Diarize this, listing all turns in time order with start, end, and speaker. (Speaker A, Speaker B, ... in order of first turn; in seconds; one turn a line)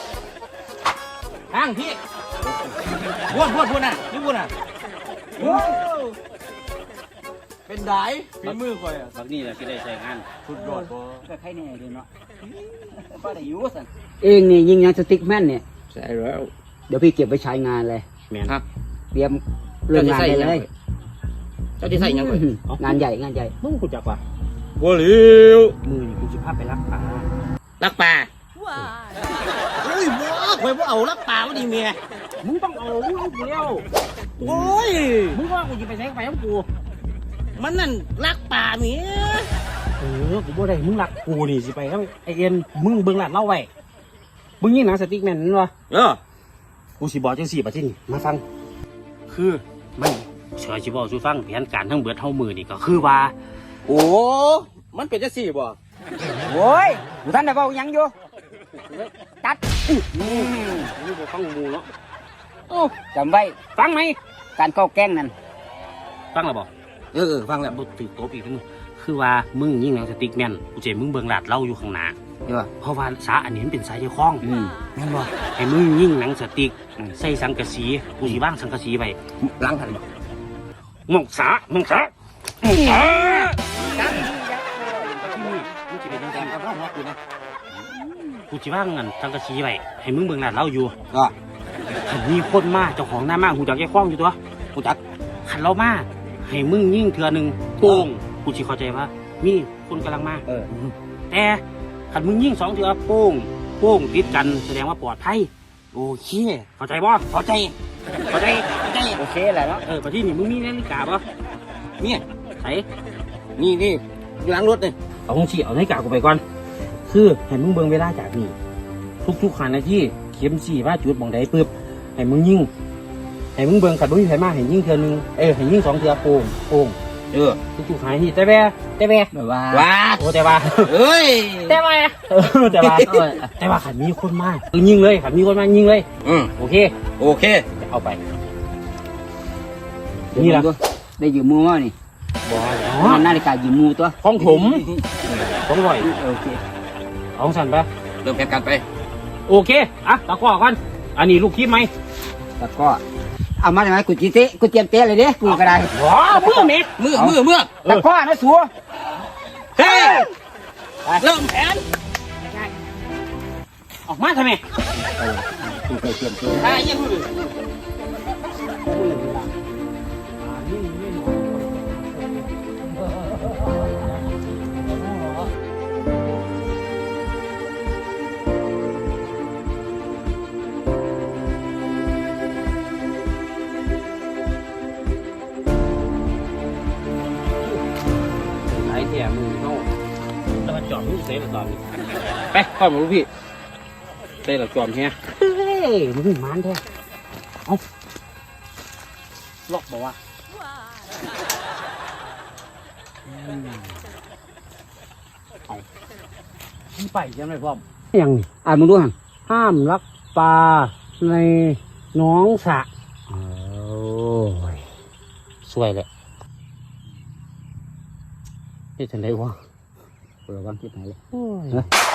Speaker A: 1.5-1.9
Speaker B: 3.3-4.5
Speaker C: 5.4-5.8
Speaker B: 5.4-6.2
Speaker B: 7.7-9.1
Speaker A: 9.1-10.3
Speaker B: 10.5-10.9
Speaker C: 10.5-12.1
Speaker C: 12.9-15.6
Speaker B: 15.9-16.5
Speaker C: 16.9-18.1
Speaker A: 18.3-18.6
Speaker C: 19.1-20.7
Speaker B: 19.9-20.7
Speaker B: 21.8-22.5
Speaker C: 21.9-23.5
Speaker A: 22.7-23.0
Speaker A: 23.6-24.2
Speaker B: 24.8-25.8
Speaker A: 25.8-27.3
Speaker B: 27.8-28.3
Speaker B: 29.8-32.0
Speaker A: 32.4-33.9
Speaker B: 34.4-35.4
Speaker A: 34.4-34.8
Speaker A: 35.3-36.7
Speaker B: 37.5-39.5
Speaker A: 40.0-43.7
Speaker A: 44.6-45.7
Speaker B: 45.9-46.2
Speaker A: 47.0-48.4
Speaker A: 49.3-53.3
Speaker B: 53.9-55.8
Speaker C: 56.4-58.1
Speaker A: 58.7-59.1
Speaker A: 59.9-61.9
Speaker C: 60.1-60.9
Speaker C: 62.7-63.6
Speaker A: 63.8-64.2
Speaker C: 64.6-65.3
Speaker A: 66.3-66.7
Speaker C: 67.1-67.7
Speaker A: 67.7-72.2
Speaker A: 72.8-74.5
Speaker C: 74.4-74.9
Speaker B: 75.0-75.3
Speaker A: 75.4-79.2
Speaker C: 79.5-80.0
Speaker A: 81.1-82.1
Speaker C: 82.6-85.7
Speaker B: 84.0-84.3
Speaker A: 85.2-86.5
Speaker B: 86.4-87.2
Speaker C: 88.0-88.4
Speaker A: 88.5-90.9
Speaker A: 92.0-94.4
Speaker A: 95.4-100.4
Speaker A: 101.3-105.5
Speaker B: 105.9-106.7
Speaker A: 106.8-107.2
Speaker B: 107.3-107.7
Speaker A: 108.3-108.7
Speaker C: 109.1-109.8
Speaker A: 109.8-111.2
Speaker B: 112.0-112.2
Speaker A: 112.6-112.8
Speaker B: 113.5-114.9
Speaker A: 115.3-116.4
Speaker A: 117.0-118.5
Speaker A: 119.2-122.7
Speaker A: 123.5-127.0
Speaker A: 127.8-129.3
Speaker C: 129.3-129.9
Speaker B: 129.7-130.2
Speaker A: 130.2-130.9
Speaker B: 130.8-131.8
Speaker A: 131.7-136.9
Speaker B: 132.8-133.2
Speaker B: 137.2-137.6
Speaker A: 137.8-138.2
Speaker C: 140.3-141.9
Speaker A: 140.3-140.7
Speaker A: 142.4-143.3
Speaker C: 143.0-144.2
Speaker A: 144.2-144.8
Speaker B: 144.6-144.9
Speaker A: 145.6-146.1
Speaker C: 146.0-146.6
Speaker A: 147.3-147.9
Speaker B: 148.2-148.8
Speaker A: 149.4-151.9
Speaker C: 152.6-153.0
Speaker C: 153.6-158.7
Speaker B: 155.4-155.7
Speaker A: 155.9-156.9
Speaker B: 157.0-157.7
Speaker B: 159.8-160.3
Speaker B: 161.2-161.8
Speaker A: 164.1-164.6
Speaker C: 164.9-166.8
Speaker B: 166.6-167.2
Speaker A: 168.8-169.5
Speaker A: 170.4-172.5
Speaker A: 174.9-175.3
Speaker A: 188.6-189.9
Speaker A: 190.6-191.8
Speaker A: 194.4-196.8
Speaker A: 199.7-200.2
Speaker A: 203.3-203.9
Speaker A: 206.9-208.5
Speaker C: 208.6-209.1
Speaker A: 209.5-214.8
Speaker A: 215.6-216.1
Speaker A: 219.0-219.6
Speaker C: 220.5-221.2
Speaker A: 221.3-221.8